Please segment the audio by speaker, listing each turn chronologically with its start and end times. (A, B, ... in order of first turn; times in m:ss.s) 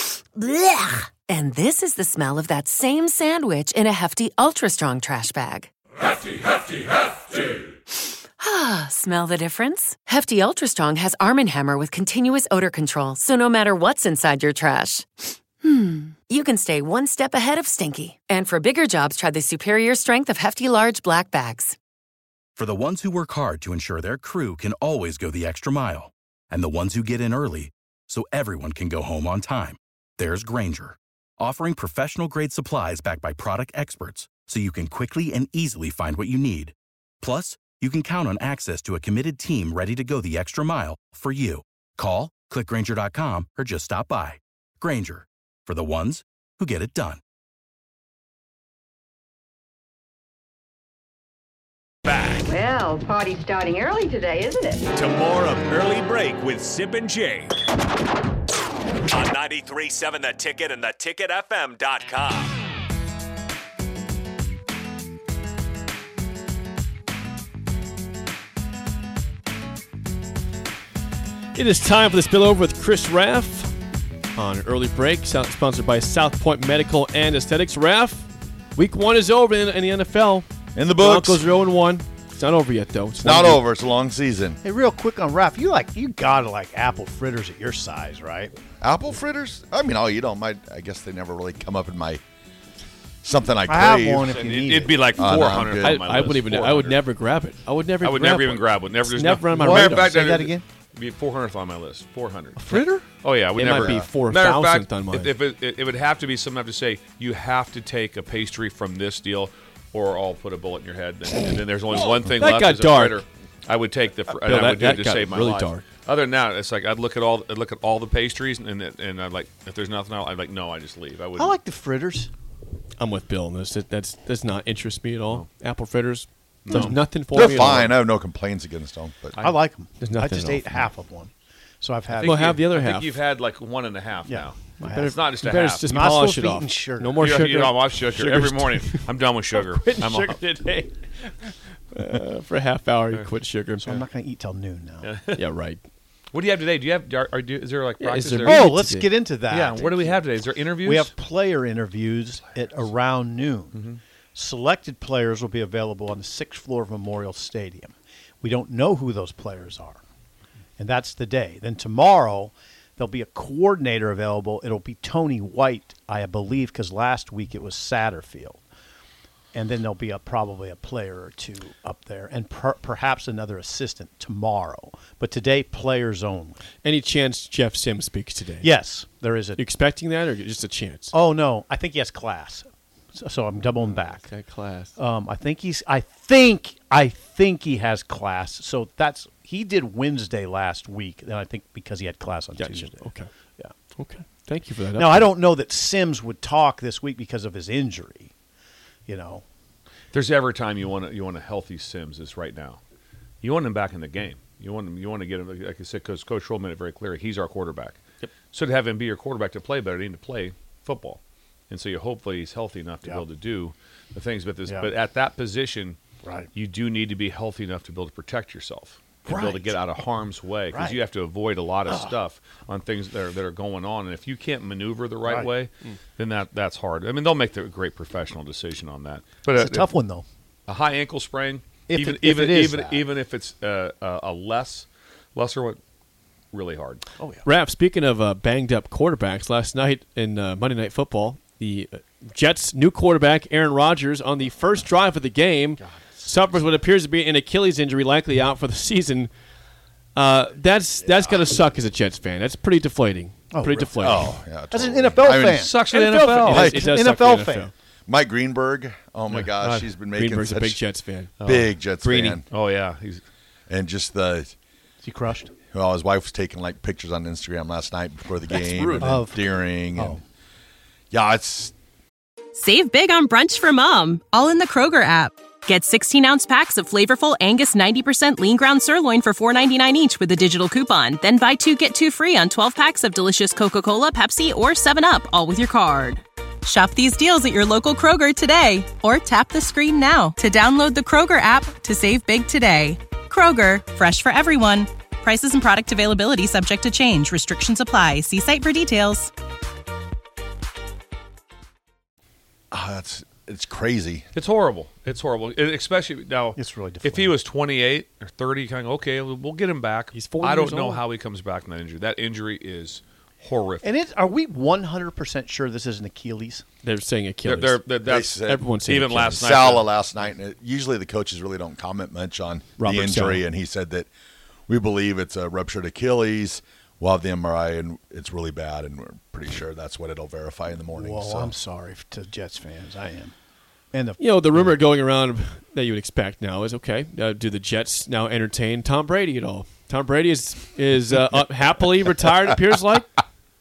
0:01.3-0:05.7 A
0:07.9-0:21.8 A
0:22.6-0:47.2 B
0:52.1-0:52.4 C
0:52.5-0:54.8 D
0:54.9-0:57.5 C
0:59.1-1:02.5 C
1:11.5-1:13.7 E
1:14.3-1:23.6 E
1:20.8-1:21.4 F
1:23.2-1:24.6 F
1:24.6-1:28.5 G
1:28.8-1:32.2 F
1:33.2-1:34.3 F
1:33.7-1:35.2 G
1:34.3-1:37.0 H
1:35.2-1:36.0 F
1:35.8-1:40.2 E
1:38.0-1:42.7 H
1:39.5-1:40.6 G
1:42.6-1:43.0 G
1:43.2-2:01.6 H
1:43.5-1:45.3 E
1:51.9-1:53.2 E
1:54.4-1:55.8 E
2:01.4-2:02.3 G
2:03.0-2:08.0 E
2:06.6-2:07.7 H
2:07.3-2:09.4 F
2:09.4-2:12.5 G
2:10.0-2:10.9 E
2:12.1-2:15.9 H
2:12.2-2:13.2 E
2:14.3-2:15.2 G
2:14.8-2:24.0 E
2:15.9-2:17.4 G
2:17.2-2:20.4 H
2:23.8-2:25.1 G
2:25.0-2:25.4 H
2:25.3-2:25.8 E
2:26.3-2:28.7 H
2:28.0-2:29.1 E
2:28.4-2:33.8 G
2:29.5-2:31.1 H
2:33.7-2:34.0 H
2:34.3-2:40.0 G
2:40.8-2:48.6 G
2:49.5-2:56.6 G
2:56.8-2:58.7 E
2:58.6-2:59.6 G
2:59.6-3:01.1 E
3:01.1-3:04.2 G
3:03.8-3:05.0 E
3:05.0-3:13.0 G
3:12.6-3:13.3 E
3:13.9-3:15.3 E
3:14.9-3:18.3 G
3:19.1-3:19.4 G
3:20.1-3:22.8 H
3:23.4-3:36.0 H
3:36.2-3:36.5 G
3:36.5-3:49.9 H
3:39.2-3:39.8 G
3:40.7-3:41.0 G
3:41.9-3:42.1 G
3:49.5-3:50.2 G
3:50.7-3:55.8 H
3:51.9-3:53.1 G
3:56.5-3:57.0 H
3:57.2-3:57.4 G
3:57.4-4:09.3 E
4:10.1-4:14.4 E
4:13.5-4:14.2 G
4:14.0-4:15.7 F
4:14.7-4:15.8 G
4:15.6-4:16.7 H
4:15.9-4:17.7 E
4:16.4-4:16.9 F
4:16.6-4:17.7 G
4:18.1-4:20.8 F
4:19.3-4:19.8 H
4:20.0-4:21.3 E
4:21.4-4:23.2 H
4:21.4-4:22.4 F
4:23.7-4:24.5 F
4:25.0-4:25.5 G
4:25.7-4:30.2 F
4:28.5-4:29.2 E
4:29.0-4:30.2 G
4:31.1-4:31.7 F
4:32.5-4:59.3 I
5:02.7-5:04.2 F
5:04.3-5:13.9 H
5:06.6-5:07.4 G
5:10.1-5:11.0 E
5:13.8-5:16.6 G
5:16.8-5:19.5 E
5:17.4-5:20.0 H
5:18.0-5:18.7 F
5:19.4-5:24.1 F
5:22.8-5:23.4 E
5:24.7-5:31.5 F
5:30.9-5:33.3 G
5:33.9-5:34.3 G
5:34.2-5:43.2 E